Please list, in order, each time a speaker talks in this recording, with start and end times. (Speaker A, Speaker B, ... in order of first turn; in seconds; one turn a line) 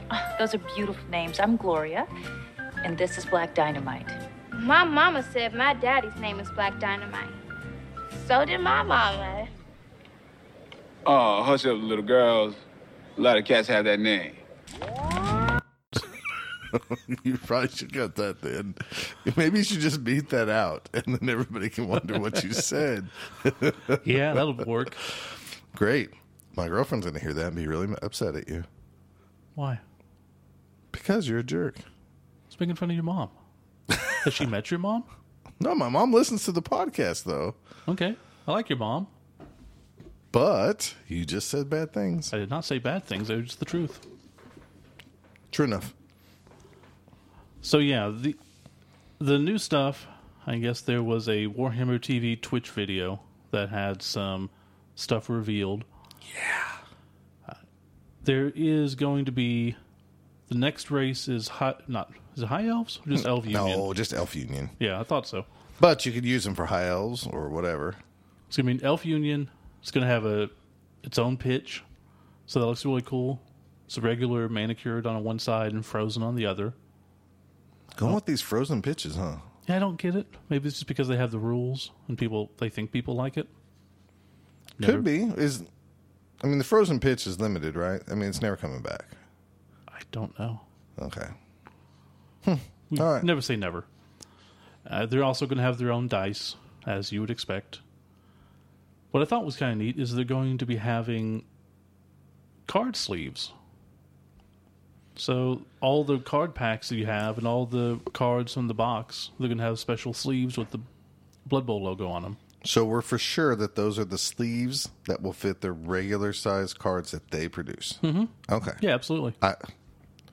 Speaker A: 0.1-2.1
Speaker A: 2.8-4.2
Speaker B: 4.5-7.4
Speaker B: 8.1-9.5
Speaker C: 11.1-12.6
Speaker C: 13.2-14.4
Speaker D: 16.7-24.6
Speaker E: 24.0-25.0
Speaker D: 25.7-28.7
Speaker E: 29.6-29.8
Speaker D: 30.9-31.8
Speaker E: 32.5-33.3
Speaker E: 34.2-35.1
Speaker D: 35.6-37.6
Speaker E: 37.9-39.1
Speaker D: 40.3-42.3
Speaker E: 42.3-44.0
Speaker D: 45.5-45.9
Speaker E: 47.6-48.4
Speaker E: 49.2-55.9
Speaker D: 56.3-56.8
Speaker E: 58.2-59.8
Speaker E: 60.5-63.9
Speaker D: 63.1-64.7
Speaker E: 64.8-65.5
Speaker D: 65.8-68.0
Speaker E: 68.5-70.5
Speaker E: 71.0-71.8
Speaker E: 72.5-76.7
Speaker D: 77.9-79.5
Speaker E: 79.7-83.5
Speaker E: 84.8-85.1
Speaker D: 84.8-85.7
Speaker D: 86.4-89.2
Speaker E: 89.9-90.6
Speaker D: 91.0-91.3
Speaker D: 92.4-93.3
Speaker E: 92.9-93.8
Speaker E: 94.8-97.8
Speaker E: 99.1-101.4
Speaker E: 102.7-103.5
Speaker E: 105.2-110.8
Speaker E: 111.5-112.4
Speaker D: 112.6-118.8
Speaker E: 118.0-119.3
Speaker D: 119.4-119.7